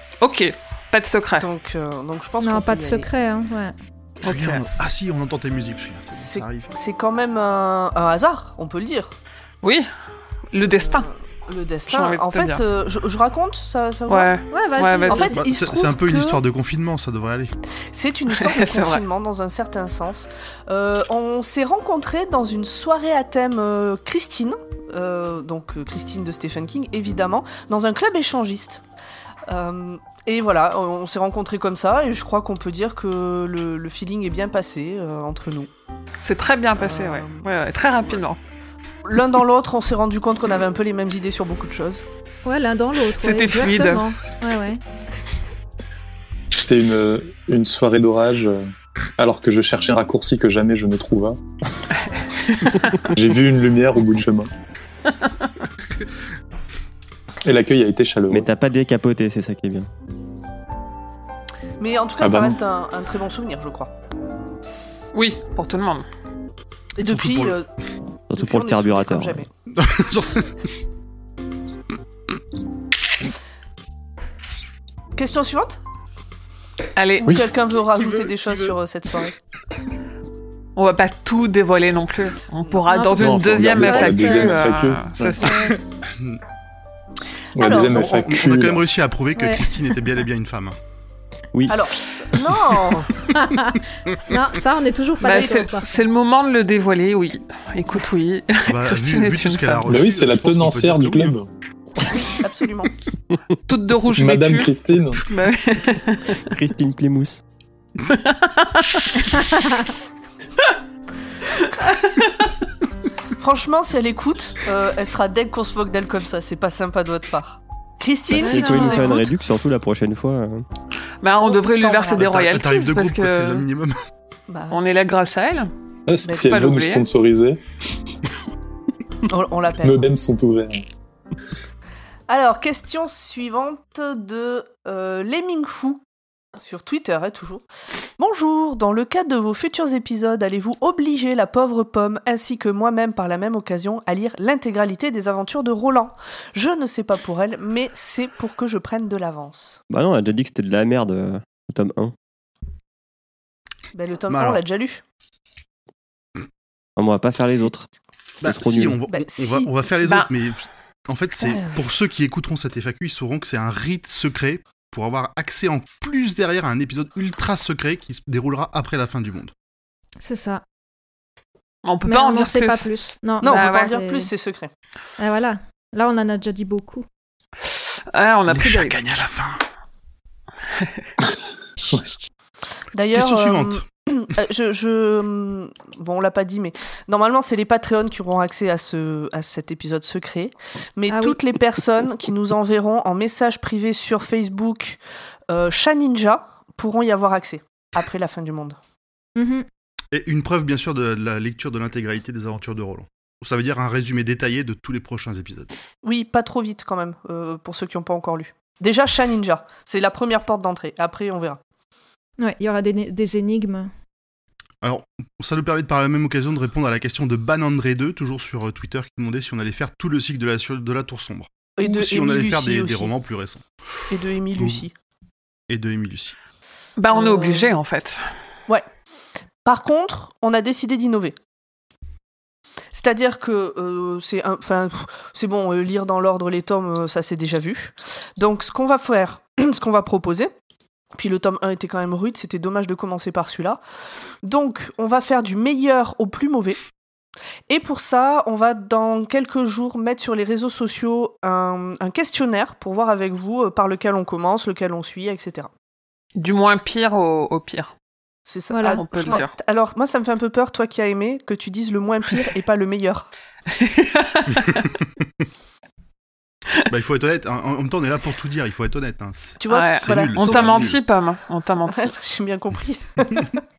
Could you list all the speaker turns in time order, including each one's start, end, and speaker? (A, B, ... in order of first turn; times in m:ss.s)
0:00.2-0:01.5 A
0:01.4-0:03.1 B
0:02.4-0:03.8 C
0:04.2-0:06.7 D
0:04.2-0:04.8 A
0:06.2-0:09.1 B
0:09.6-0:09.9 A
0:10.5-0:11.1 A
0:10.7-0:14.3 B
0:11.9-0:12.6 A
0:14.1-0:15.3 A
0:14.5-0:15.4 C
0:15.0-0:16.4 B
0:15.4-0:17.5 D
0:17.9-0:28.8 B
0:18.4-0:19.0 A
0:29.5-0:35.7 B
0:36.2-0:38.4 A
0:36.8-0:37.5 B
0:39.0-0:42.0 B
0:42.4-0:44.8 C
0:43.2-0:44.1 A
0:46.6-0:51.4 E
0:52.5-0:52.8 A
0:53.2-0:54.5 E
0:57.4-0:58.5 E
0:58.3-0:59.9 F
1:01.8-1:03.9 B
1:02.2-1:02.6 E
1:05.1-1:06.0 A
1:07.0-1:07.7 B
1:07.0-1:07.6 D
1:08.3-1:09.4 F
1:08.4-1:09.5 B
1:09.7-1:10.6 D
1:15.2-1:15.8 B
1:17.0-1:17.4 A
1:17.2-1:19.3 B
1:18.0-1:18.8 D
1:20.8-1:25.7 A
1:22.9-1:24.6 C
1:23.2-1:24.0 F
1:23.5-1:25.8 E
1:25.4-1:25.7 C
1:26.0-1:26.4 D
1:27.6-1:28.8 E
1:27.6-1:28.1 B
1:27.8-1:30.8 D
1:29.4-1:29.7 C
1:31.5-1:31.8 F
1:31.7-1:33.2 B
1:33.4-1:35.9 C
1:35.2-1:40.1 A
1:38.7-1:41.4 D
1:39.9-1:41.5 E
1:42.4-1:42.9 B
1:43.7-1:44.7 A
1:44.2-1:45.2 E
1:45.3-1:46.4 A
1:46.5-1:47.4 F
1:48.0-1:49.4 A
1:51.6-1:52.3 A
1:53.4-1:59.3 B
1:58.3-1:59.1 C
1:58.4-2:00.6 F
2:01.2-2:03.6 A
2:01.4-2:02.3 B
2:02.2-2:04.0 D
2:04.5-2:04.8 B
2:04.7-2:05.7 A
2:06.1-2:07.6 E
2:06.3-2:06.6 B
2:06.4-2:07.1 A
2:09.3-2:10.1 B
2:09.8-2:10.8 E
2:12.3-2:16.0 B
2:16.6-2:17.6 B
2:18.2-2:29.8 B
2:29.9-2:32.1 F
2:33.9-2:35.0 B
2:34.3-2:34.6 D
2:37.0-2:37.9 F
2:38.4-2:49.5 D
2:38.4-2:39.0 F
2:39.1-2:39.7 B
2:41.4-2:41.8 B
2:50.2-2:50.6 C
2:51.8-2:54.0 A
2:52.0-2:54.3 C
2:53.4-2:54.7 B
2:55.2-2:57.0 C
2:57.7-2:59.1 A
2:58.5-2:59.6 D
3:01.8-3:02.1 C
3:02.9-3:18.8 B
3:03.1-3:03.8 D
3:11.1-3:11.4 C
3:19.4-3:19.7 C
3:20.1-3:25.7 D
3:26.0-3:31.6 B
3:32.4-3:33.9 C
3:34.8-3:43.6 D
3:41.8-3:43.1 B
3:44.1-3:44.9 B
3:44.2-3:44.8 D
3:45.7-3:46.4 D
3:47.0-3:48.2 A
3:47.1-3:47.7 B
3:49.6-3:51.4 B
3:52.9-4:00.5 B
4:01.2-4:03.8 B
4:04.4-4:06.8 B
4:07.7-4:15.7 B
4:16.4-4:17.9 A
4:18.5-4:23.3 B
4:18.7-4:19.4 C
4:19.0-4:19.5 A
4:23.7-4:24.9 A
4:26.9-4:31.0 D
4:29.6-4:30.9 B
4:29.7-4:32.1 A
4:31.9-4:33.6 B